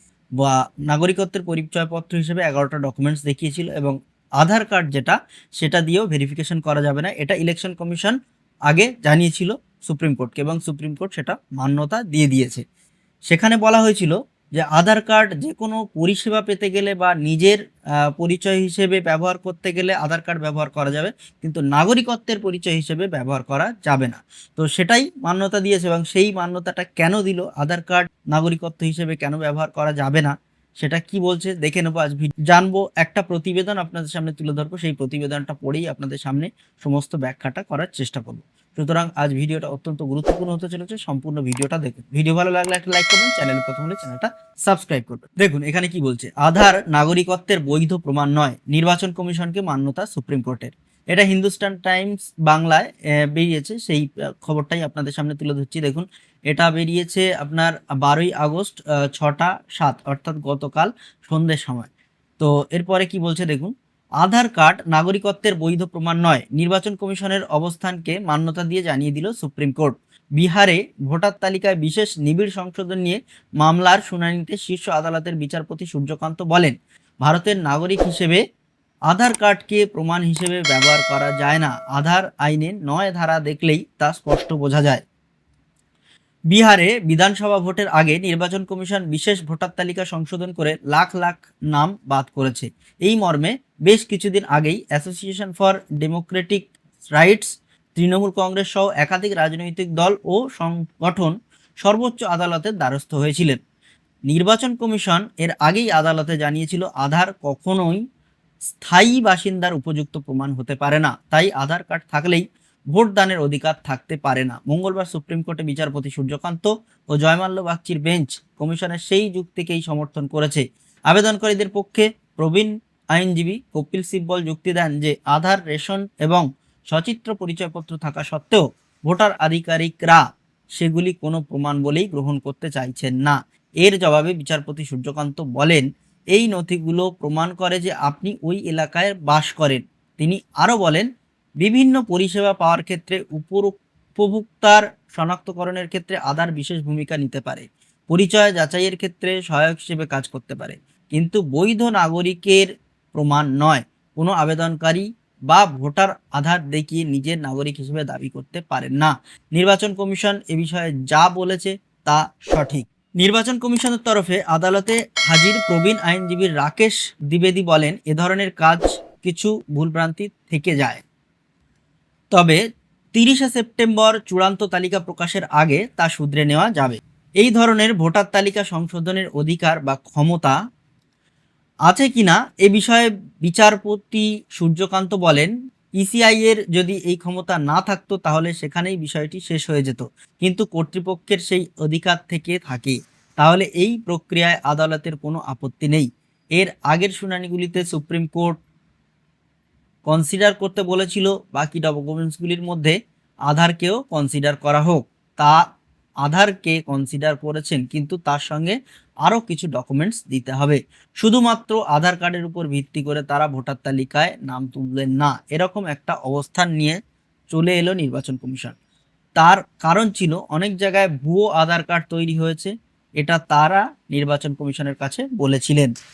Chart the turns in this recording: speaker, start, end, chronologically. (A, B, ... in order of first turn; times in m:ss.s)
0:00.4-0:08.2 A
0:08.7-0:12.6 A
0:13.3-1:18.4 A
1:19.1-1:25.0 A
1:26.5-1:43.6 A
1:44.3-1:48.0 A
1:48.7-2:10.2 A
2:10.8-2:21.1 A
2:21.6-2:51.0 A
2:52.3-2:52.6 A
2:53.1-3:00.6 A
3:01.9-3:18.6 A
3:20.1-3:23.0 A
3:23.5-3:25.6 A
3:26.2-3:37.0 A
3:37.5-3:38.8 A
3:39.4-3:45.9 A